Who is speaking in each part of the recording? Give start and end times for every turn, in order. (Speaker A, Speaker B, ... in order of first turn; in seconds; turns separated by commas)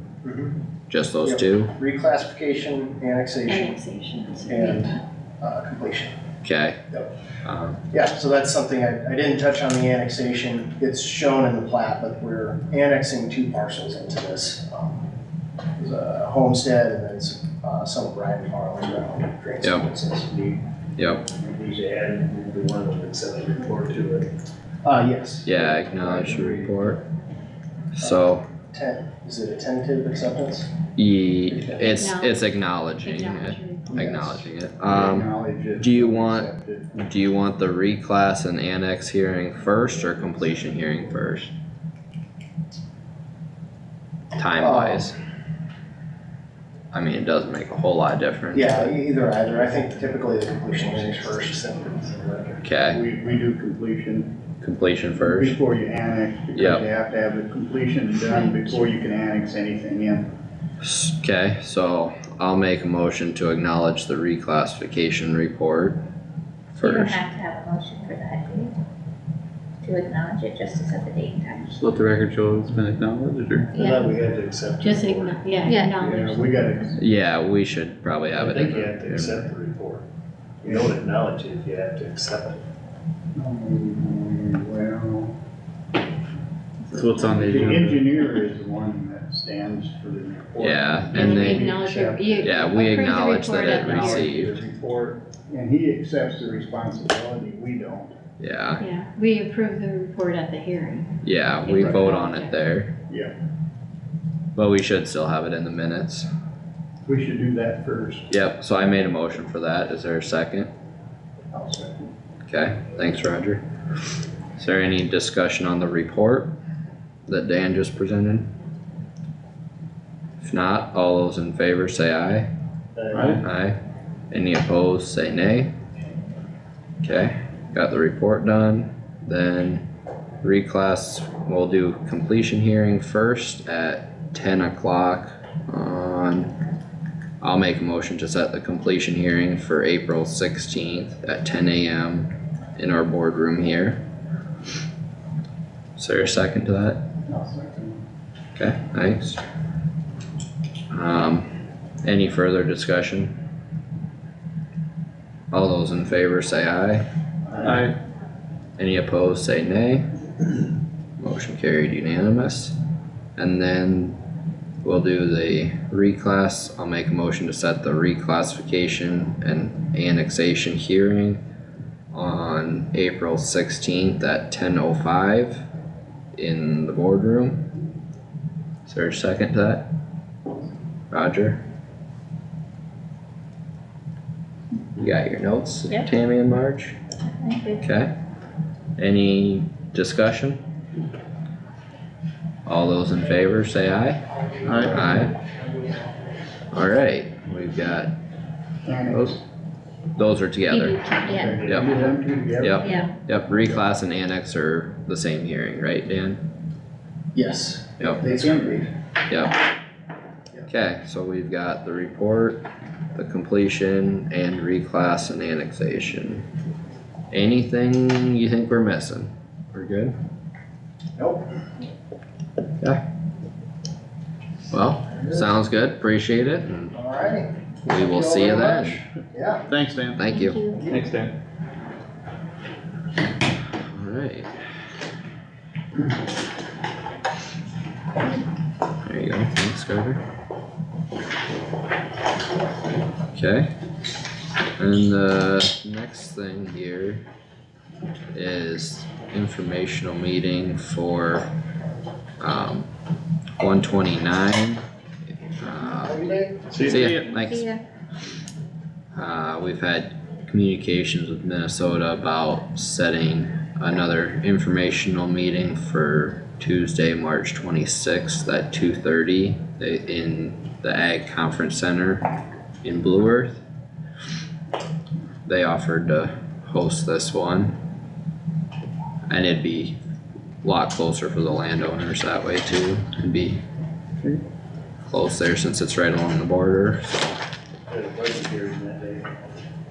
Speaker A: 0.2-0.5, Speaker B: 0.9-1.7, Speaker A: 1.2-3.8, Speaker C: 3.5-5.0, Speaker A: 4.5-6.1, Speaker B: 6.4-6.8, Speaker B: 7.4-7.8, Speaker A: 7.9-15.1, Speaker A: 15.8-20.5, Speaker B: 21.0-21.2, Speaker D: 21.3-24.3, Speaker A: 24.8-26.6, Speaker B: 25.4-27.0, Speaker B: 28.0-28.4, Speaker A: 28.0-30.7, Speaker B: 31.0-41.5, Speaker C: 31.9-32.5, Speaker C: 33.0-34.0, Speaker A: 33.9-34.4, Speaker E: 34.8-37.0, Speaker B: 44.4-45.2, Speaker A: 44.6-45.1, Speaker B: 46.9-48.9, Speaker A: 48.5-52.6, Speaker B: 52.6-53.0, Speaker E: 52.9-54.3, Speaker B: 54.6-55.6, Speaker E: 55.2-60.3, Speaker B: 56.5-56.9, Speaker C: 58.5-58.9, Speaker B: 60.8-66.0, Speaker B: 66.8-67.2, Speaker F: 66.8-68.8, Speaker F: 69.8-71.7, Speaker G: 71.8-73.7, Speaker F: 73.7-74.1, Speaker D: 73.8-75.4, Speaker C: 74.8-76.7, Speaker F: 75.7-75.9, Speaker E: 76.0-77.0, Speaker B: 77.0-79.5, Speaker D: 78.4-80.0, Speaker D: 80.6-82.6, Speaker E: 83.3-85.3, Speaker G: 87.0-88.0, Speaker E: 87.2-92.7, Speaker B: 90.6-91.7, Speaker C: 91.1-94.3, Speaker B: 92.4-94.6, Speaker E: 93.6-98.1, Speaker B: 98.4-98.8, Speaker C: 98.8-102.6, Speaker B: 101.2-102.9, Speaker E: 103.1-103.3, Speaker B: 104.5-106.3, Speaker E: 107.1-108.3, Speaker B: 108.3-110.7, Speaker E: 111.5-112.1, Speaker B: 112.5-113.6, Speaker B: 114.6-116.5, Speaker B: 117.3-118.5, Speaker B: 120.4-122.5, Speaker G: 123.1-123.4, Speaker B: 123.4-123.8, Speaker B: 124.3-125.7, Speaker B: 127.0-129.8, Speaker B: 130.4-136.5, Speaker B: 137.4-144.0, Speaker B: 146.0-147.0, Speaker E: 147.3-148.0, Speaker B: 148.6-149.4, Speaker B: 150.9-153.4, Speaker B: 155.5-157.1, Speaker G: 157.7-157.9, Speaker B: 158.8-160.1, Speaker B: 161.2-162.8, Speaker B: 163.4-164.2, Speaker B: 164.8-171.4, Speaker B: 172.1-175.6, Speaker B: 176.3-177.7, Speaker B: 178.9-179.9, Speaker B: 181.1-181.6, Speaker B: 185.0-187.0, Speaker F: 187.4-187.8, Speaker B: 187.8-188.1, Speaker B: 189.0-190.6, Speaker B: 192.7-194.2, Speaker E: 194.7-195.2, Speaker B: 194.8-195.3, Speaker B: 196.7-198.2, Speaker E: 198.8-199.4, Speaker B: 199.1-199.4, Speaker B: 200.2-202.0, Speaker C: 200.7-201.4, Speaker F: 201.2-201.6, Speaker E: 201.3-203.1, Speaker B: 202.6-206.4, Speaker F: 202.8-203.1, Speaker A: 207.3-208.9, Speaker E: 208.3-208.8, Speaker B: 209.3-209.6, Speaker B: 210.7-216.5, Speaker B: 217.3-220.1, Speaker A: 221.2-221.5, Speaker B: 224.7-227.0, Speaker A: 226.9-229.7, Speaker B: 227.9-229.0, Speaker E: 229.7-230.3, Speaker B: 230.2-230.6, Speaker C: 230.3-230.9, Speaker G: 230.9-231.3, Speaker B: 233.8-234.5, Speaker B: 239.0-240.2, Speaker B: 243.3-243.7, Speaker B: 244.8-247.2, Speaker B: 248.3-251.5, Speaker B: 252.4-252.9, Speaker B: 253.6-254.8, Speaker B: 255.6-257.7, Speaker A: 256.2-256.6, Speaker G: 256.7-257.3, Speaker F: 257.2-257.8, Speaker B: 259.1-272.3, Speaker B: 272.8-273.6, Speaker B: 275.5-277.8, Speaker B: 279.3-280.0, Speaker B: 280.6-283.6, Speaker B: 285.1-287.3, Speaker D: 287.9-289.3